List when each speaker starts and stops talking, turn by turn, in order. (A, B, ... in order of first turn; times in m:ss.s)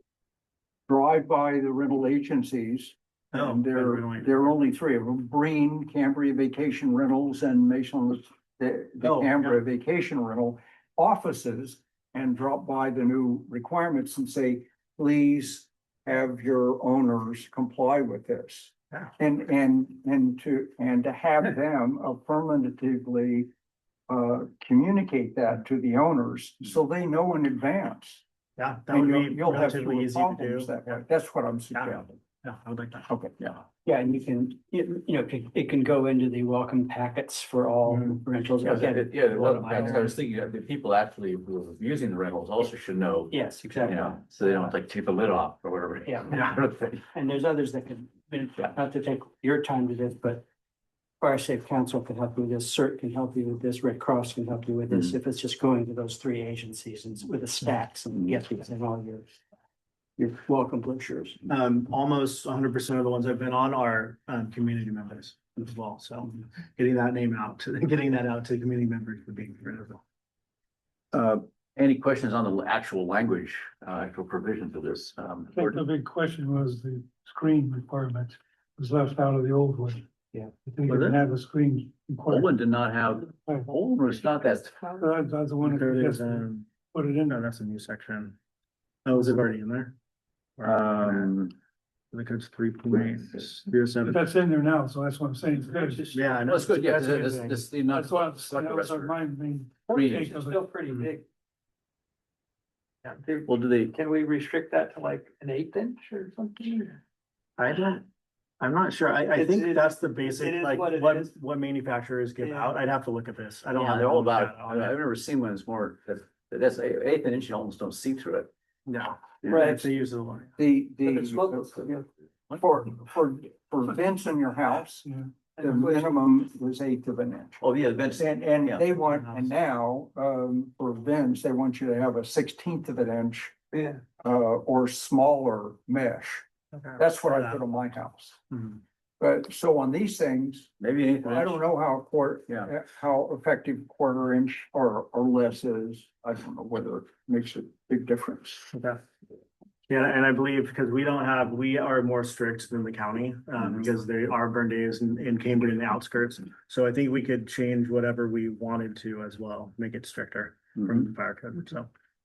0:00.9-0:23.5 A
0:03.3-0:04.5 B
0:09.0-0:09.6 B
0:24.1-0:28.2 A
0:28.6-0:30.8 B
0:28.9-0:32.2 A
0:31.7-0:33.1 B
0:33.8-0:40.1 C
0:37.9-0:38.1 B
0:38.6-0:47.0 D
0:43.3-0:44.6 C
0:46.1-0:46.5 C
0:47.1-0:50.4 C
0:51.2-0:59.4 C
1:00.2-1:01.4 C
1:01.5-1:10.0 B
1:11.1-1:15.8 D
1:15.5-1:20.1 E
1:20.6-1:22.5 E
1:20.9-1:21.2 D
1:22.3-1:24.9 D
1:25.0-1:27.4 E
1:25.6-1:26.7 B
1:27.2-1:28.4 B
1:29.0-1:29.9 B
1:30.6-1:31.4 B
1:30.6-1:31.5 D
1:32.1-1:34.2 B
1:34.0-1:36.4 E
1:36.1-1:37.7 B
1:36.4-1:39.2 D
1:37.9-1:40.6 E
1:39.9-1:40.4 D
1:39.9-1:41.2 C
1:43.2-1:47.0 C
1:43.5-1:44.0 D
1:47.6-1:48.0 B
1:48.6-1:54.9 B
1:49.4-1:51.3 C
1:53.7-1:58.5 D
1:58.9-2:00.5 B
1:59.5-1:59.8 C
2:00.6-2:02.0 A
2:01.2-2:02.0 C
2:02.6-2:07.6 A
2:05.1-2:06.0 E
2:07.6-2:08.9 D
2:08.1-2:13.6 A
2:09.1-2:09.5 B
2:14.2-2:16.5 A
2:16.8-2:17.6 B
2:17.0-2:18.5 A
2:19.2-2:28.7 A
2:20.8-2:21.6 D
2:28.7-2:29.0 B
2:29.9-2:41.9 B